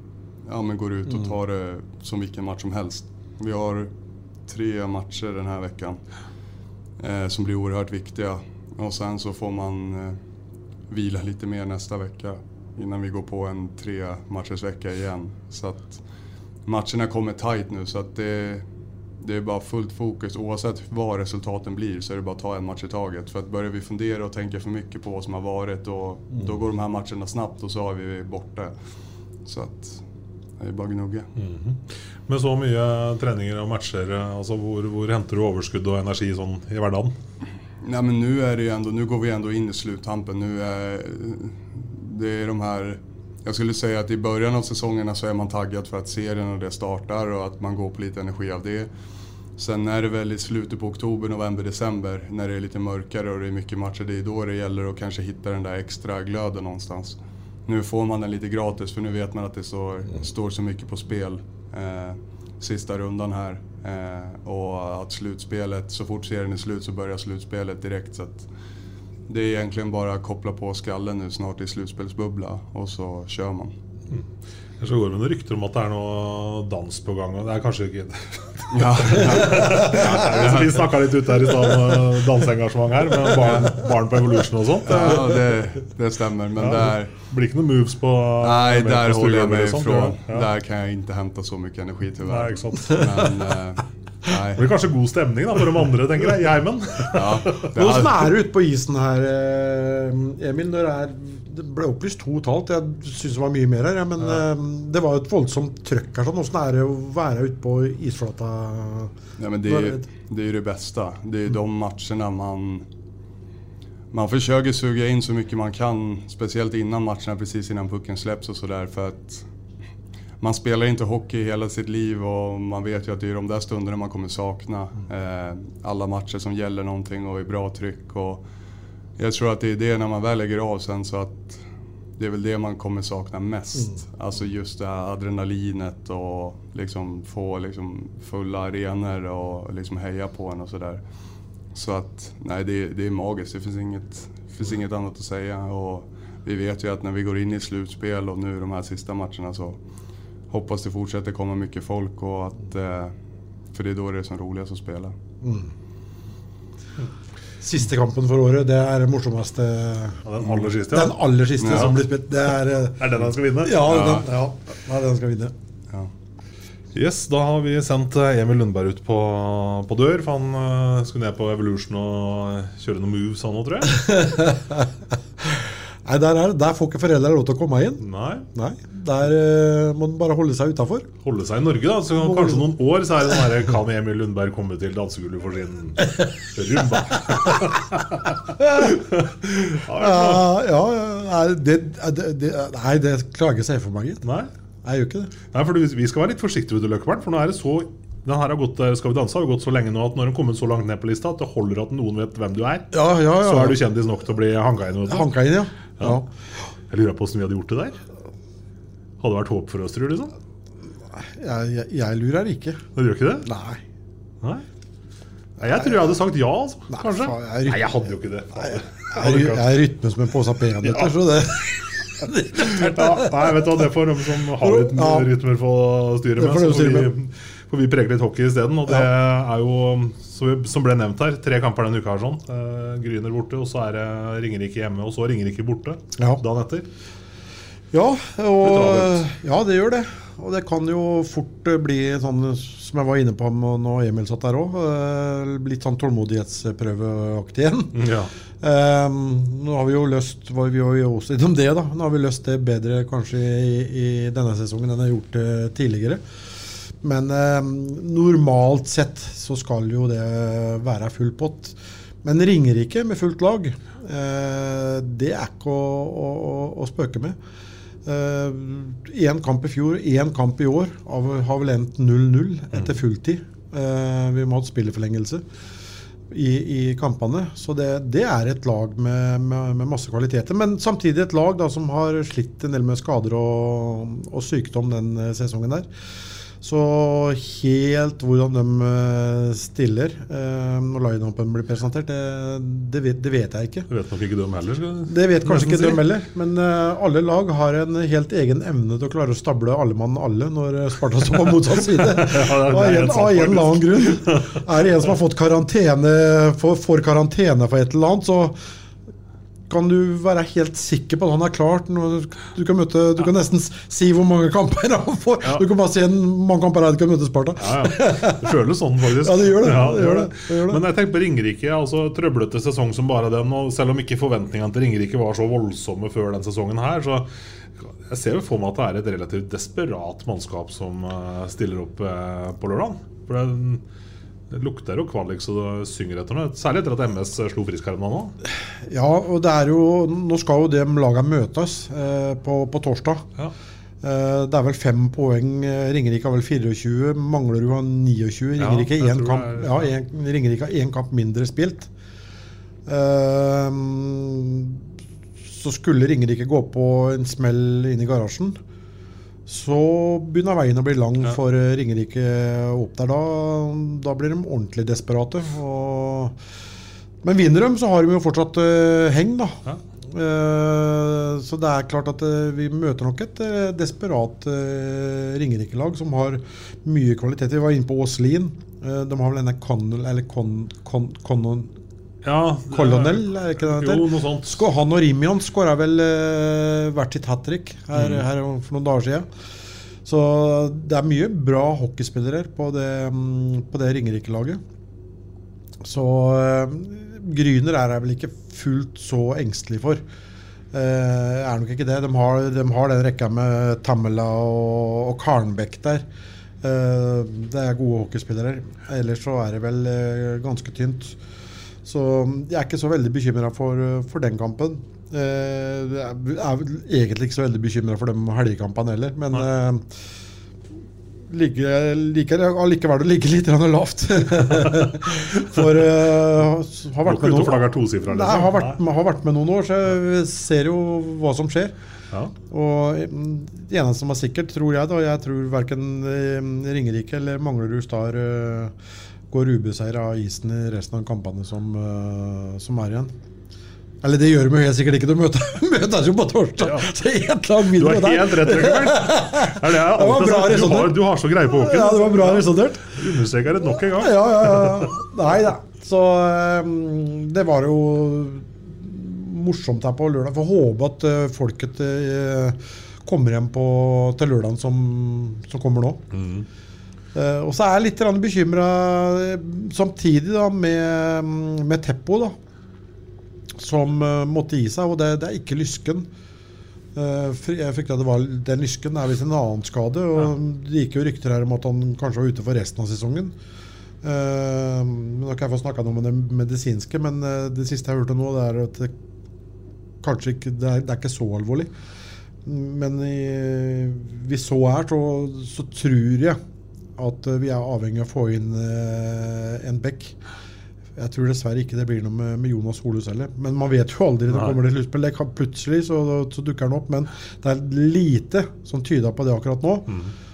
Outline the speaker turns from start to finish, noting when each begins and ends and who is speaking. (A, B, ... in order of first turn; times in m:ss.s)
0:00.4-0:03.9 A
0:04.5-0:06.0 A
0:07.0-0:10.2 A
0:10.9-0:16.0 A
0:16.7-0:18.7 A
0:19.2-0:28.8 A
0:29.4-0:30.0 A
0:30.6-0:31.3 A
0:31.4-0:37.1 B
0:37.8-0:48.9 A
0:49.6-1:08.5 A
1:09.3-1:13.7 A
1:14.8-1:25.5 B
1:18.7-1:20.9 A
1:23.4-1:23.8 A
1:24.8-1:27.1 A
1:26.6-1:30.5 B
1:28.4-1:34.8 A
1:32.2-1:33.3 B
1:34.6-1:37.7 B
1:37.1-1:38.3 A
1:37.7-1:49.1 C
1:49.4-1:52.9 A
1:49.7-1:50.0 C
1:54.1-1:59.5 A
2:00.4-2:08.4 A
2:09.2-2:11.6 A
2:12.2-2:21.0 A
2:21.7-2:29.8 A
2:30.5-2:33.1 A
2:33.7-2:35.2 A
2:35.4-2:35.7 C
2:37.6-2:40.2 C
2:40.2-2:42.0 B
2:40.9-2:45.5 C
2:41.6-2:41.9 A
2:43.0-2:43.9 B
2:43.8-2:44.3 A
2:47.0-2:54.2 B
2:53.9-2:54.9 C
2:55.4-3:01.1 C
2:58.0-2:58.5 B
3:01.2-3:10.4 B
3:02.2-3:02.7 C
3:08.6-3:08.9 C
3:09.9-3:14.2 C
3:14.2-3:14.5 B
3:14.8-3:15.3 C
3:15.5-3:25.3 B
3:22.9-3:23.8 C
3:25.1-3:26.3 C
3:26.9-3:28.0 B
3:29.2-3:30.3 B
3:31.2-3:32.9 C
3:33.0-3:33.5 B
3:33.4-3:33.8 C
3:35.6-3:39.7 B
3:35.6-3:36.0 C
3:36.9-3:43.6 C
3:40.8-3:41.1 B
3:42.6-3:56.9 B
3:44.6-3:45.3 C
3:46.4-3:47.2 C
3:56.2-3:56.4 C
3:57.9-4:08.1 C
3:58.6-3:59.2 B
4:07.9-4:08.3 B
4:08.6-4:16.2 C
4:16.9-4:27.4 C
4:28.0-4:35.4 C
4:36.3-4:45.9 C
4:46.6-4:53.9 C
4:53.9-4:56.1 B
4:55.1-5:08.6 C
5:01.9-5:04.6 B
5:09.7-5:18.6 C
5:17.6-5:27.3 B
5:19.2-5:20.8 C
5:27.8-5:33.8 B
5:34.5-5:38.4 B
5:38.6-5:43.3 C
5:44.0-5:51.9 C
5:48.6-5:49.9 B
5:52.9-5:54.9 C
5:55.5-5:58.6 C
5:59.5-6:06.4 C
6:07.2-6:21.7 C
6:22.2-6:24.6 B
6:22.7-6:29.3 C
6:27.9-6:28.2 B
6:30.0-6:34.6 C
6:35.8-6:40.0 C
6:40.7-6:46.1 C
6:46.6-6:51.2 C
6:51.8-6:59.9 C
7:01.3-7:11.8 C
7:04.6-7:05.7 B
7:07.0-7:08.8 B
7:12.5-7:18.8 C
7:19.3-7:23.1 C
7:24.0-7:33.1 C
7:26.6-7:26.9 B
7:27.8-7:34.9 B
7:33.7-7:46.0 C
7:46.1-7:46.5 B
7:47.1-7:52.4 C
7:53.6-7:56.1 C
7:57.0-8:03.4 C
8:04.0-8:08.9 C
8:10.0-8:11.7 C
8:12.4-8:16.4 C
8:17.0-8:20.2 C
8:21.0-8:30.0 C
8:24.3-8:24.6 B
8:29.9-8:30.1 B